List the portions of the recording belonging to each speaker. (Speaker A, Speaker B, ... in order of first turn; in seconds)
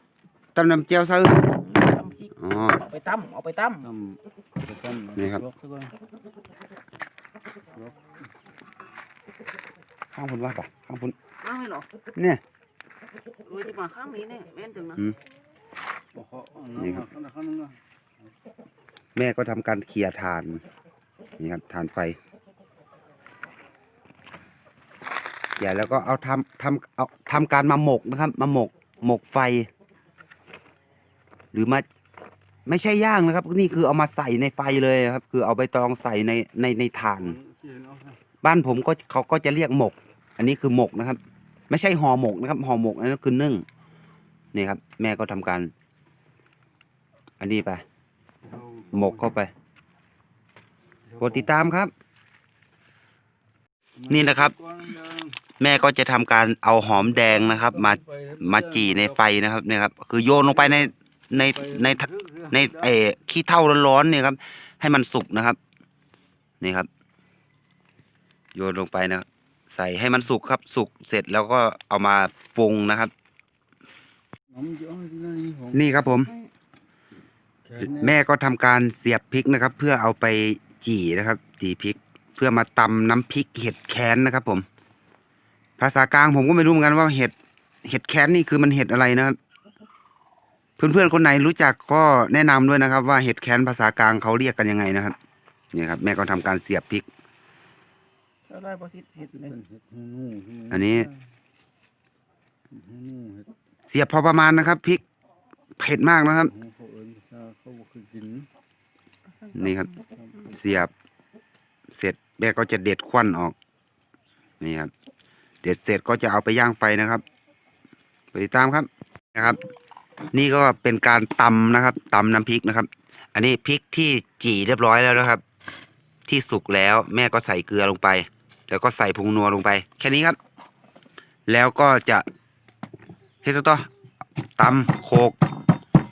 Speaker A: 0.6-1.5, 2.4-2.8, 5.2-5.4, 10.1-11.1, 12.2-12.4, 16.8-17.1, 19.1-20.6, 21.4-22.2, 25.6-29.7, 31.5-31.9, 32.7-37.4, 38.4-41.2, 41.7-43.6, 44.5-45.7, 47.4-47.8, 48.9-49.5, 51.2-51.9, 54.1-54.5, 55.6-65.6, 66.6-66.9, 68.5-73.1, 75.7-76.3, 77.8-84.6, 85.8-87.3, 87.8-89.4, 90.8-95.1, 95.7-97.0, 100.7-101.1, 103.9-105.0, 105.8-106.5, 109.5-109.9, 110.5-110.9, 111.9-113.5, 114.6-114.9, 115.6-117.2, 118.3-119.6, 120.3-125.4, 126.3-130.4, 131.5-132.2, 133.4-133.9, 134.6-135.4
Speaker B: 1.5-3.9, 11.4-11.9, 13.4-15.0, 98.5-99.6, 109.4-110.1
Speaker C: 3.8-5.9, 16.1-17.8, 37.2-38.2, 48.5-49.2, 51.1-51.5, 54.0-55.4, 57.3-59.2, 60.3-62.9, 74.5-76.0, 77.6-78.2, 99.5-101.0, 102.7-103.5, 106.5-108.5